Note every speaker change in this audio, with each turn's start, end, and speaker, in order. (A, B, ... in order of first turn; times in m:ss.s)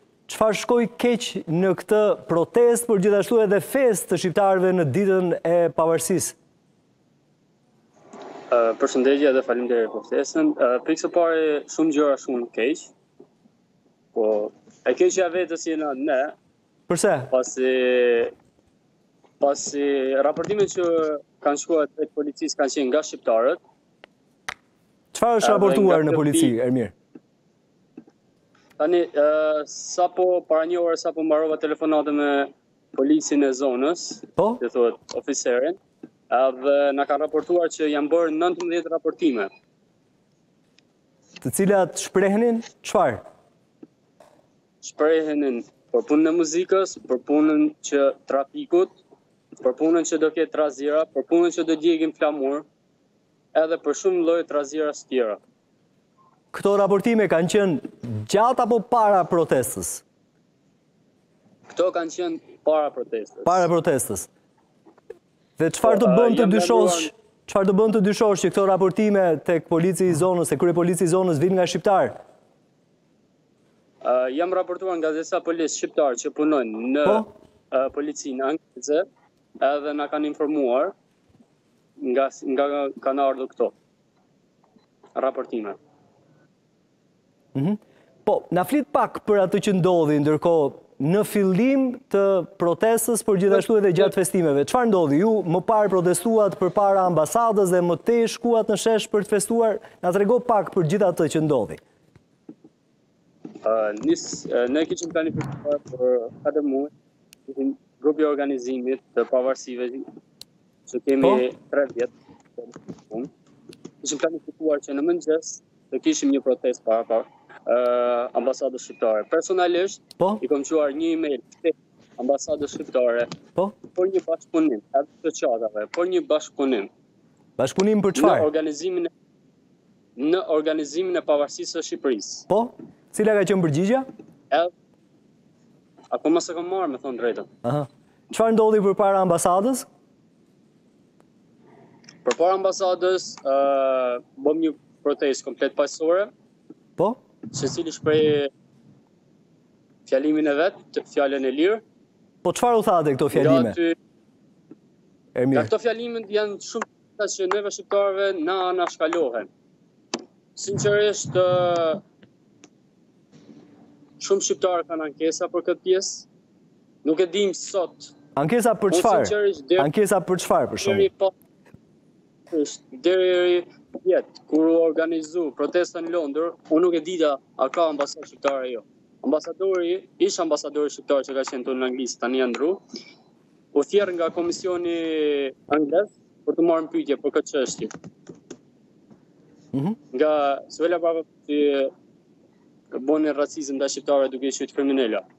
0:00.3-0:06.4 A
0:08.5-0:12.9 B
0:14.1-0:16.4 B
0:16.9-0:17.3 A
0:17.3-0:18.3 B
0:19.4-0:23.6 B
0:25.1-0:26.9 A
0:25.4-0:26.6 B
0:28.8-0:35.8 B
0:36.3-0:39.5 B
0:41.4-0:43.2 A
0:44.8-0:49.0 B
0:49.6-0:52.6 B
0:53.5-0:55.4 B
0:56.5-1:00.0 A
1:01.7-1:03.7 B
1:03.4-1:04.3 A
1:05.6-1:12.2 A
1:05.8-1:07.1 B
1:14.0-1:19.0 B
1:19.6-1:21.0 B
1:22.0-1:23.7 B
1:25.2-1:25.8 B
1:27.6-1:41.8 A
1:43.6-1:46.9 B
1:47.5-1:50.1 B
1:50.9-1:53.3 B
1:54.0-2:03.3 B
2:03.9-2:06.9 B
2:07.6-2:08.5 A
2:08.2-2:09.1 B
2:10.2-2:12.5 B
2:12.5-2:14.1 A
2:16.1-2:17.5 B
2:17.6-2:19.9 A
2:22.2-2:26.3 B
2:27.5-2:28.5 B
2:30.1-2:31.8 B
2:32.4-2:33.8 A
2:33.3-2:34.0 B
2:35.4-2:35.7 A
2:35.5-2:39.5 B
2:40.6-2:42.0 B
2:44.2-2:46.3 B
2:47.0-2:48.1 B
2:48.4-2:51.1 A
2:48.9-2:49.9 B
2:50.8-2:51.3 B
2:52.5-3:02.8 B
3:03.7-3:07.9 B
3:10.1-3:11.9 B
3:12.9-3:15.2 B